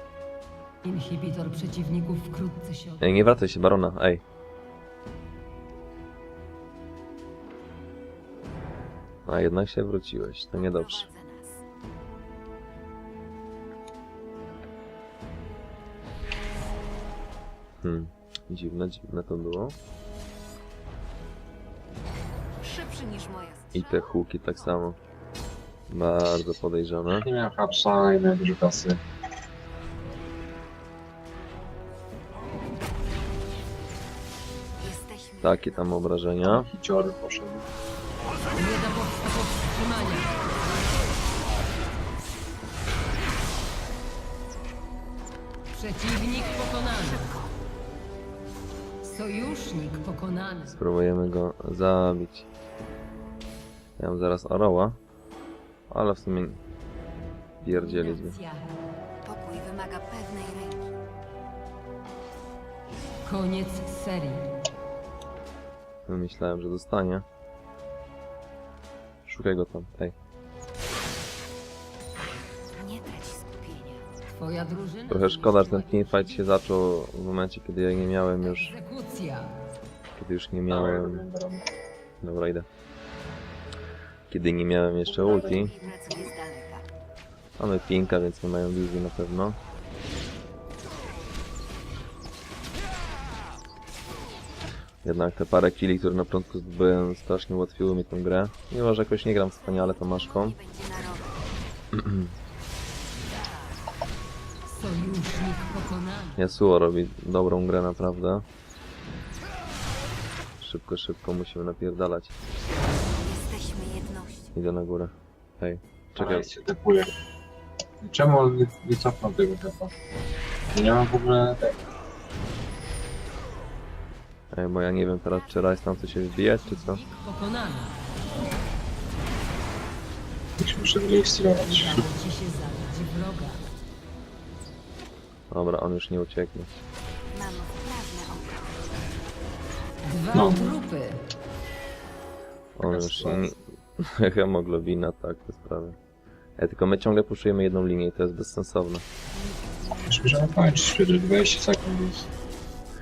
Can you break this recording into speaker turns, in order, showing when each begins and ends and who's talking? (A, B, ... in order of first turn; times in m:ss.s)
0:00.8-0:03.4 A
0:03.0-0:04.2 B
0:09.2-0:11.1 B
0:10.5-0:11.6 C
0:17.8-0:19.8 B
0:22.6-0:25.2 C
0:23.7-0:24.9 B
0:25.9-0:27.3 B
0:27.1-0:29.0 D
0:34.8-0:36.1 C
0:35.4-0:36.7 B
0:36.4-0:37.7 D
0:38.5-0:40.5 A
0:45.7-0:47.4 A
0:47.2-0:47.5 C
0:49.0-0:50.8 A
0:50.7-0:52.5 B
0:54.0-0:55.0 B
0:55.9-0:56.6 B
0:57.6-0:58.4 B
0:57.6-0:58.8 A
0:59.2-1:00.8 C
1:03.2-1:04.5 A
1:06.1-1:07.2 B
1:09.2-1:10.1 B
1:12.7-1:14.0 C
1:14.3-1:16.5 A
1:15.1-1:18.8 B
1:18.4-1:19.6 A
1:20.2-1:21.2 B
1:20.7-1:21.7 D
1:22.2-1:22.7 B
1:24.3-1:25.7 B
1:25.1-1:26.3 D
1:25.1-1:26.8 C
1:27.6-1:29.6 B
1:35.0-1:40.6 B
1:39.4-1:41.5 C
1:41.9-1:42.3 B
1:44.7-1:46.4 A
1:46.4-1:48.4 B
1:50.6-1:52.3 B
1:53.1-1:54.6 C
1:54.5-1:56.5 B
1:56.2-1:57.1 D
1:58.0-1:59.9 D
2:00.7-2:01.9 D
2:04.5-2:07.0 B
2:06.3-2:08.0 A
2:10.6-2:12.0 D
2:11.6-2:13.8 A
2:15.5-2:16.7 B
2:17.3-2:18.8 C
2:20.0-2:21.2 A
2:20.3-2:20.7 D
2:22.8-2:26.0 B
2:22.8-2:23.5 D
2:26.6-2:29.0 B
2:29.5-2:30.0 C
2:30.0-2:32.3 D